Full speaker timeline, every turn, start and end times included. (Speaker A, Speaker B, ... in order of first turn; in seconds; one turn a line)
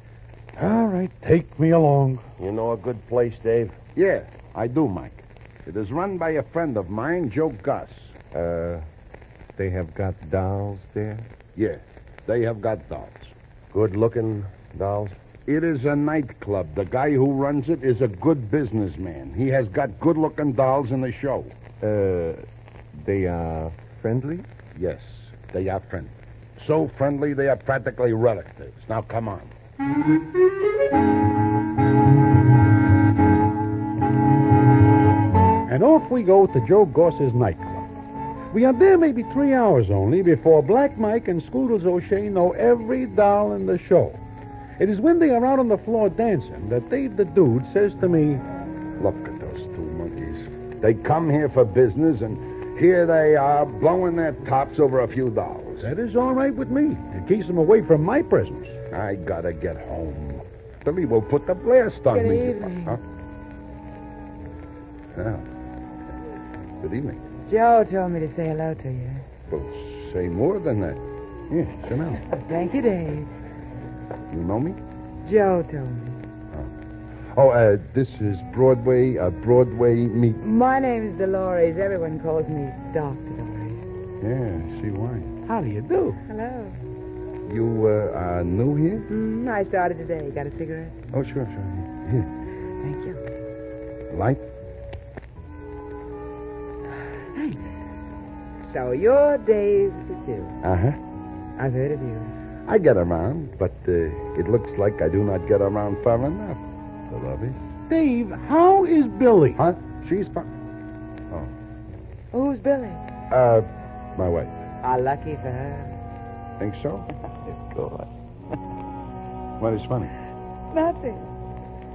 Speaker A: 0.6-2.2
Speaker B: 2.4-3.7
Speaker C: 4.0-8.1
Speaker D: 8.3-8.8
Speaker D: 9.6-11.3
Speaker C: 11.6-13.3
Speaker B: 13.7-15.1
Speaker C: 15.5-21.5
Speaker D: 21.8-24.4
Speaker C: 24.7-29.5
Speaker A: 35.6-37.9
Speaker A: 38.5-44.2
Speaker A: 44.8-48.4
Speaker C: 49.0-55.9
Speaker A: 55.8-58.8
Speaker C: 58.9-63.0
Speaker E: 62.1-63.0
Speaker C: 65.1-65.4
Speaker C: 66.8-67.2
Speaker E: 67.5-69.2
Speaker C: 69.5-72.2
Speaker E: 72.2-73.3
Speaker C: 74.3-74.8
Speaker E: 75.2-76.2
Speaker C: 77.3-80.4
Speaker E: 80.4-83.8
Speaker C: 84.2-85.3
Speaker A: 85.5-86.2
Speaker E: 86.2-86.8
Speaker C: 87.5-89.1
Speaker E: 89.1-91.0
Speaker C: 91.1-92.3
Speaker E: 92.8-93.2
Speaker C: 94.1-94.4
Speaker E: 97.3-97.7
Speaker E: 98.6-100.5
Speaker C: 100.6-101.0
Speaker E: 101.6-102.3
Speaker C: 102.7-107.7
Speaker A: 107.9-109.6
Speaker C: 109.6-110.5
Speaker E: 112.3-113.0
Speaker C: 113.3-114.5
Speaker E: 114.8-115.9
Speaker C: 116.6-117.1
Speaker E: 117.5-118.1
Speaker C: 119.6-120.1
Speaker E: 120.7-121.3